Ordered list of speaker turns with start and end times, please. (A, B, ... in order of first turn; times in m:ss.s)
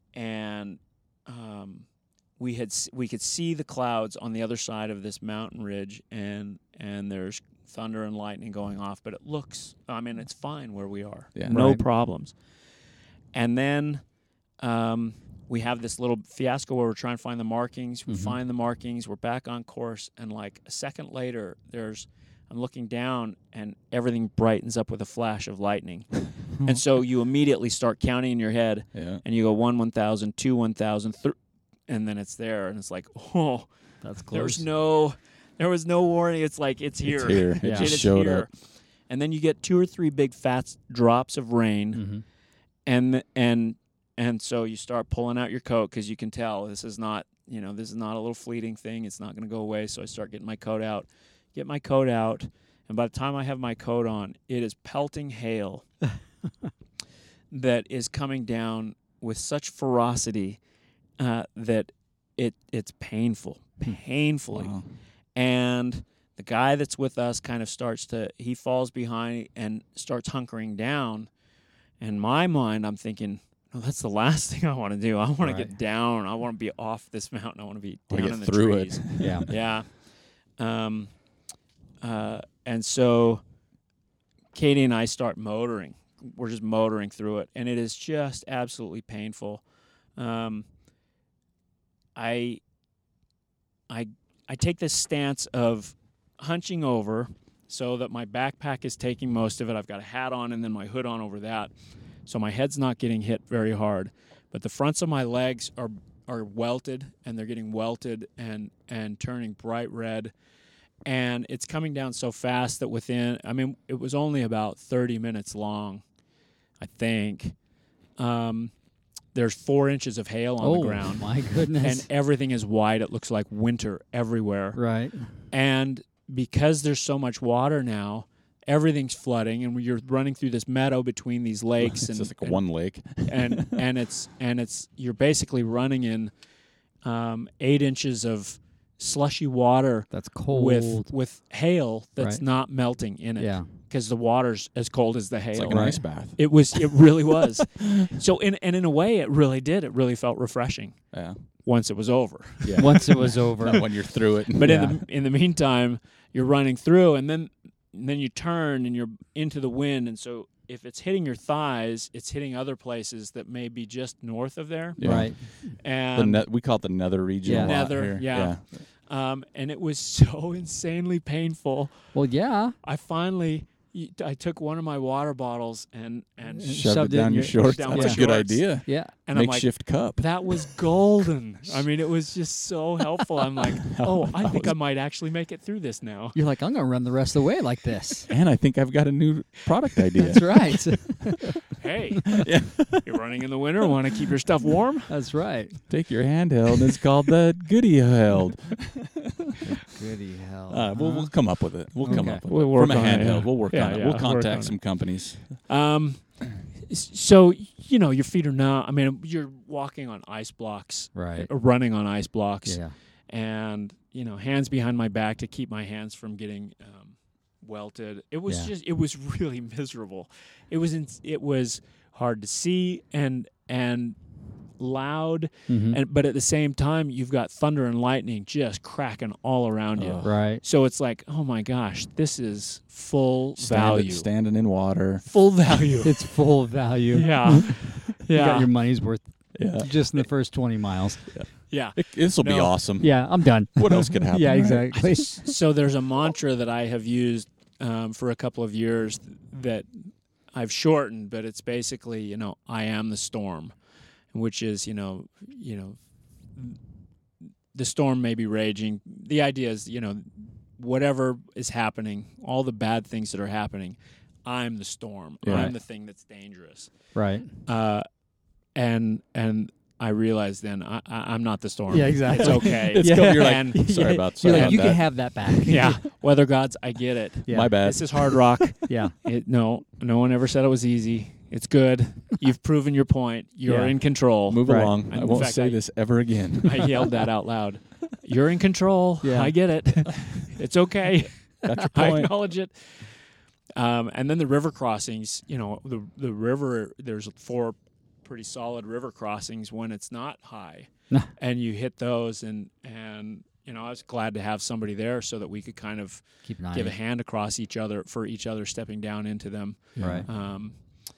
0:00.2-0:01.9 A
0:02.4-0:12.3 A
0:11.5-0:11.8 B
0:13.3-0:14.0 A
0:14.6-0:31.4 A
0:18.1-0:18.4 B
0:29.0-0:29.2 C
0:31.9-0:33.7 A
0:34.0-0:34.6 B
0:34.3-0:38.5 A
0:37.1-0:38.5 C
0:37.6-0:37.9 B
0:39.1-0:42.0 A
0:41.9-0:42.2 B
0:42.9-0:55.9 A
0:57.5-1:00.6 A
1:01.2-1:04.8 A
1:04.5-1:04.8 C
1:05.4-1:11.3 A
1:12.0-1:19.9 A
1:15.4-1:15.7 B
1:18.1-1:19.5 C
1:19.2-1:19.5 B
1:20.6-1:21.1 A
1:22.0-1:23.4 A
1:24.5-1:29.6 A
1:30.2-1:30.7 A
1:32.2-1:32.6 A
1:33.9-1:41.7 A
1:42.3-1:50.3 A
1:51.0-1:56.0 A
1:56.8-1:57.6 A
1:58.2-1:58.7 A
1:59.3-2:04.8 A
2:00.6-2:02.1 B
2:04.8-2:05.3 B
2:05.4-2:16.3 A
2:11.8-2:13.8 C
2:17.0-2:31.0 A
2:20.1-2:21.1 B
2:23.4-2:23.7 B
2:25.5-2:28.1 C
2:25.7-2:26.0 B
2:31.1-2:31.4 C
2:31.6-2:33.9 A
2:32.6-2:34.8 C
2:32.8-2:33.8 B
2:34.5-2:46.4 A
2:34.6-2:35.0 B
2:45.0-2:45.3 C
2:45.0-2:45.4 B
2:46.1-2:48.6 C
2:47.4-2:47.8 B
2:47.5-2:52.1 A
2:52.1-2:52.8 B
2:52.8-3:06.4 A
2:56.6-2:58.2 B
2:56.7-3:00.7 C
2:58.9-2:59.1 B
3:03.8-3:04.8 C
3:06.3-3:08.3 B
3:08.3-3:11.4 C
3:10.2-3:11.6 B
3:11.8-3:15.1 A
3:12.3-3:13.2 C
3:15.1-3:15.8 B
3:15.9-3:19.6 C
3:19.6-3:21.3 B
3:20.7-3:25.6 C
3:22.0-3:22.4 B
3:22.0-3:24.8 A
3:25.5-3:44.2 A
3:31.2-3:31.5 B
3:32.7-3:32.9 B
3:44.8-3:54.3 A
3:45.7-3:46.0 B
3:50.0-3:50.3 C
3:50.2-3:50.6 B
3:53.6-3:55.2 C
3:55.2-3:56.2 A
3:56.0-4:01.3 B
3:57.1-3:58.7 A
3:59.6-4:00.0 C
4:01.3-4:05.3 C
4:01.7-4:02.7 A
4:03.0-4:05.4 B
4:05.0-4:13.7 A
4:14.3-4:16.0 A
4:17.7-4:26.9 A
4:25.4-4:25.7 C
4:27.2-4:27.5 B
4:27.7-4:28.1 A
4:28.8-4:35.1 A
4:31.9-4:36.0 B
4:32.4-4:35.1 C
4:35.6-4:45.8 A
4:37.5-4:37.7 B
4:37.5-4:38.5 C
4:38.9-4:39.1 B
4:43.7-4:44.0 B
4:44.5-4:47.1 C
4:44.7-4:44.9 B
4:46.6-4:53.1 A
4:49.2-4:49.5 B
4:51.6-4:52.3 C
4:53.8-5:10.8 A
5:06.5-5:07.0 B
5:10.0-5:10.2 C
5:10.0-5:10.3 B